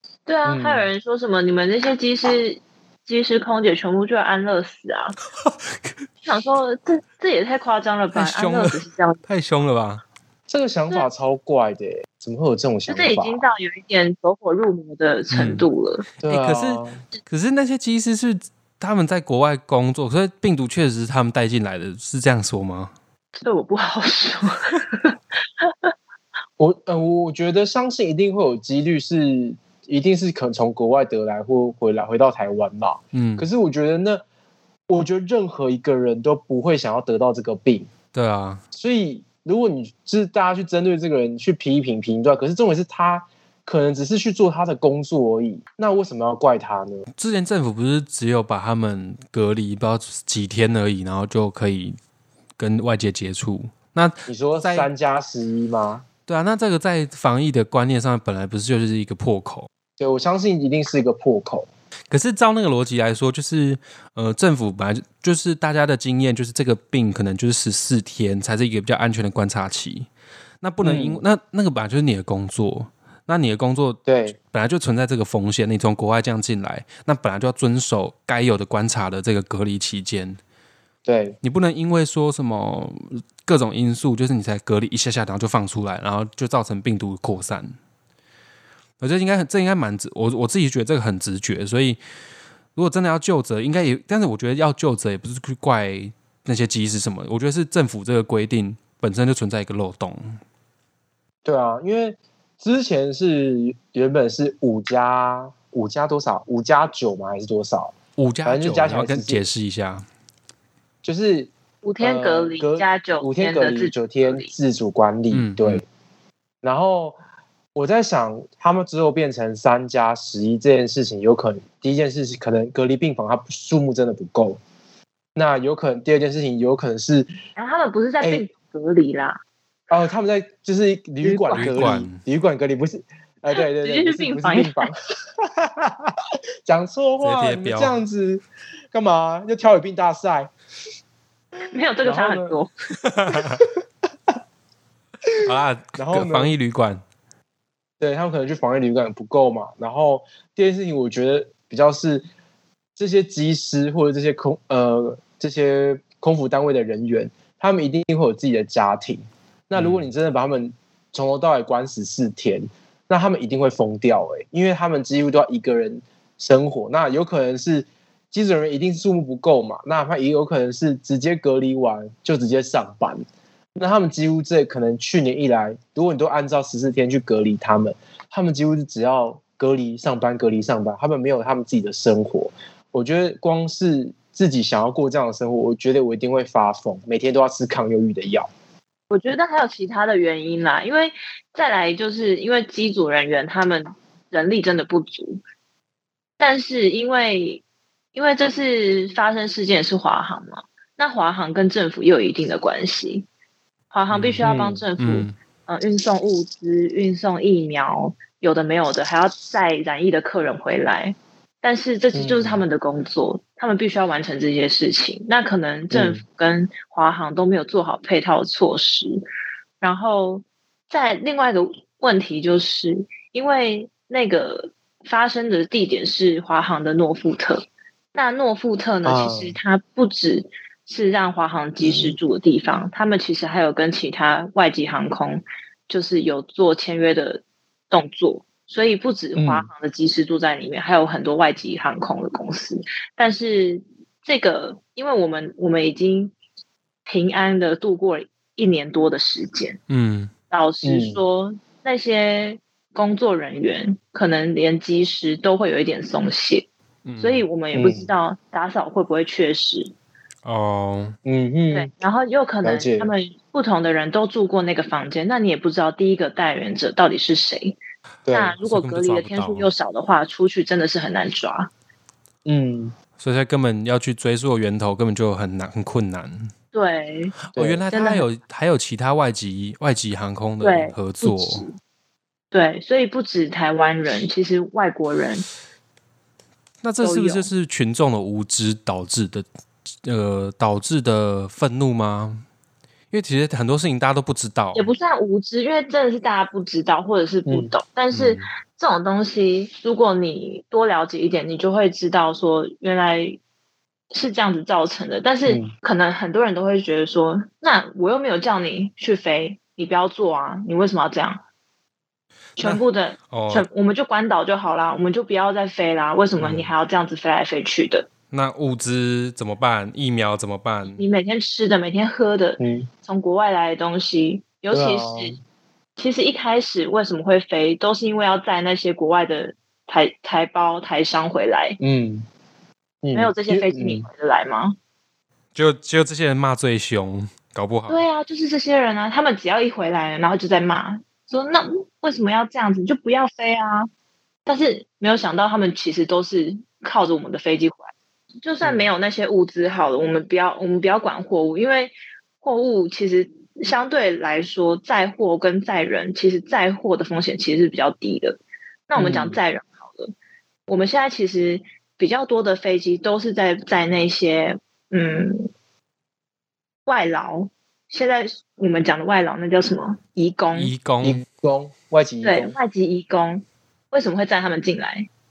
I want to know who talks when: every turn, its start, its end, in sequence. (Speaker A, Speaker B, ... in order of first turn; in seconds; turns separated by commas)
Speaker A: 0.2-5.1, Speaker B: 0.5-0.9, Speaker C: 5.5-5.9, Speaker A: 6.2-9.2, Speaker C: 8.1-10.0, Speaker B: 10.5-13.4, Speaker A: 12.9-16.1, Speaker C: 15.3-15.7, Speaker B: 16.2-17.0, Speaker C: 16.2-22.9, Speaker A: 23.4-25.9, Speaker B: 26.6-34.2, Speaker C: 33.1-33.5, Speaker B: 34.9-37.9, Speaker C: 38.1-38.6, Speaker B: 38.7-47.0, Speaker C: 47.1-52.0, Speaker C: 52.6-54.9, Speaker B: 54.3-56.0, Speaker C: 56.3-59.7, Speaker B: 60.0-61.7, Speaker C: 62.1-70.1, Speaker C: 70.6-80.4, Speaker B: 70.8-71.2, Speaker B: 74.1-74.3, Speaker B: 81.0-81.4, Speaker C: 81.4-87.7, Speaker C: 89.0-92.0, Speaker C: 92.8-100.4, Speaker B: 101.4-109.4, Speaker C: 108.2-110.0, Speaker B: 111.0-115.8, Speaker A: 111.8-114.5, Speaker C: 115.3-115.8, Speaker B: 116.6-117.2, Speaker B: 117.7-124.6, Speaker B: 125.3-127.3, Speaker A: 127.5-129.4, Speaker B: 128.2-128.4, Speaker B: 129.9-140.5, Speaker A: 131.2-132.0, Speaker C: 131.5-132.2, Speaker A: 133.8-134.9, Speaker C: 137.2-137.9, Speaker A: 141.7-142.7, Speaker B: 142.0-142.6, Speaker C: 143.0-143.6, Speaker B: 143.3-143.6, Speaker C: 145.4-147.0, Speaker B: 146.0-146.5, Speaker B: 148.0-152.2, Speaker B: 152.9-173.2, Speaker C: 159.7-160.1, Speaker B: 173.8-188.5, Speaker A: 189.1-195.4, Speaker A: 196.4-197.6, Speaker A: 198.1-203.2, Speaker A: 203.9-219.2, Speaker C: 204.1-204.5, Speaker B: 204.4-204.8, Speaker C: 205.0-205.3, Speaker B: 212.1-212.6, Speaker B: 215.9-216.2, Speaker A: 219.8-246.3, Speaker B: 229.0-229.6, Speaker B: 231.8-232.2, Speaker B: 239.3-239.7, Speaker A: 247.1-249.8, Speaker C: 249.9-250.3, Speaker A: 250.5-256.7, Speaker B: 250.8-251.2, Speaker C: 257.1-257.4, Speaker A: 257.2-259.9, Speaker B: 257.7-258.1, Speaker C: 260.4-261.2, Speaker B: 261.2-261.9, Speaker A: 261.7-267.8, Speaker B: 262.6-263.1, Speaker B: 268.2-268.5, Speaker A: 268.3-271.7, Speaker C: 268.6-269.7, Speaker B: 272.4-272.9, Speaker C: 273.2-276.5, Speaker A: 276.7-277.4, Speaker C: 277.5-281.6, Speaker B: 277.5-277.8, Speaker A: 277.9-278.2, Speaker A: 280.6-281.8, Speaker A: 282.5-285.4, Speaker C: 286.8-289.4, Speaker A: 287.0-287.5, Speaker C: 290.0-292.4, Speaker C: 293.1-294.9, Speaker A: 294.7-303.4, Speaker C: 298.1-298.5, Speaker A: 304.1-311.4, Speaker B: 305.5-305.7, Speaker C: 312.6-313.7, Speaker A: 312.6-318.1, Speaker C: 318.3-321.0, Speaker A: 321.0-325.3, Speaker B: 322.6-322.9, Speaker B: 324.7-325.4, Speaker A: 326.0-331.8, Speaker B: 331.8-332.2, Speaker B: 333.0-334.1, Speaker A: 333.1-334.8, Speaker C: 335.5-338.0, Speaker A: 337.9-343.9, Speaker A: 344.4-347.9, Speaker A: 348.4-360.1, Speaker B: 348.6-348.9, Speaker B: 358.9-359.4, Speaker A: 360.7-365.5, Speaker A: 366.9-370.7, Speaker C: 370.5-371.2, Speaker B: 371.0-372.6, Speaker A: 372.2-375.1